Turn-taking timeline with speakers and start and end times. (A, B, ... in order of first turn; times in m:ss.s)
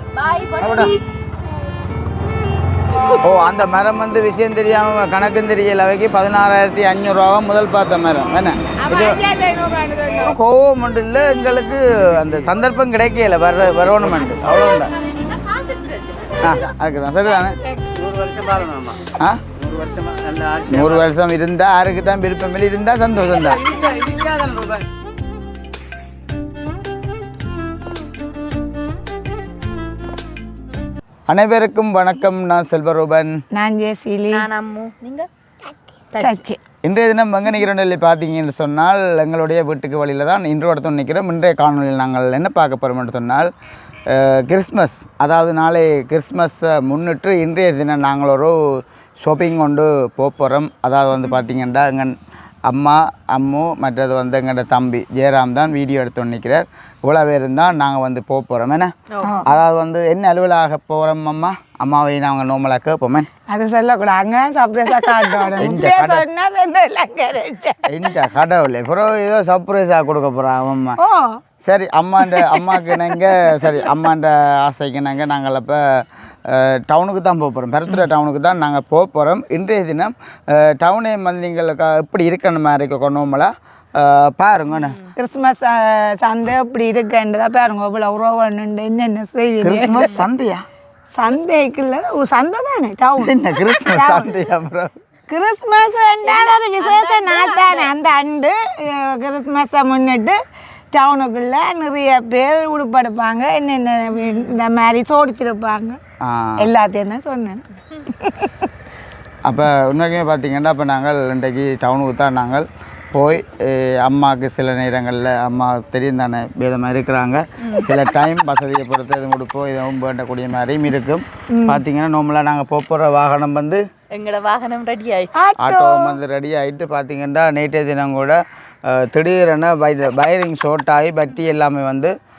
0:00.1-0:01.0 A
0:00.6-0:01.0 B
0:03.2-0:09.2 B
0:08.8-0:10.4 C
0:10.2-0:14.9 B
0:15.0-0:16.6 A
0:16.4-0:17.6 B
0:17.2-0:17.9 C
0:18.0-0:19.0 D
0:19.6-0:21.1 D
0:20.7-0:23.6 B
0:23.2-0:24.9 D
0:31.3-0:33.4 B
0:33.5-0:34.5 C
0:34.3-0:35.3 A
0:36.1-0:36.4 A
0:36.2-0:36.6 C
0:36.8-0:43.5 B
0:44.1-0:52.2 B
0:52.7-0:58.9 B
0:59.1-0:59.4 A
0:59.2-0:59.5 C
0:59.4-1:03.3 B
1:03.5-1:08.1 C
1:05.2-1:05.5 A
1:05.6-1:06.2 B
1:07.9-1:11.0 B
1:11.0-1:11.4 C
1:11.6-1:25.0 B
1:12.2-1:13.8 C
1:24.8-1:25.1 A
1:25.2-1:30.2 C
1:29.6-1:30.6 B
1:31.1-1:34.4 C
1:33.2-1:34.9 B
1:35.3-1:40.4 C
1:36.3-1:37.9 A
1:40.9-1:46.0 C
1:44.2-1:44.5 A
1:46.2-1:46.7 B
1:46.6-1:48.7 C
1:49.5-2:03.8 B
1:57.6-1:57.9 A
2:01.5-2:01.8 C
2:04.1-2:05.4 A
2:05.4-2:06.2 C
2:05.6-2:12.1 B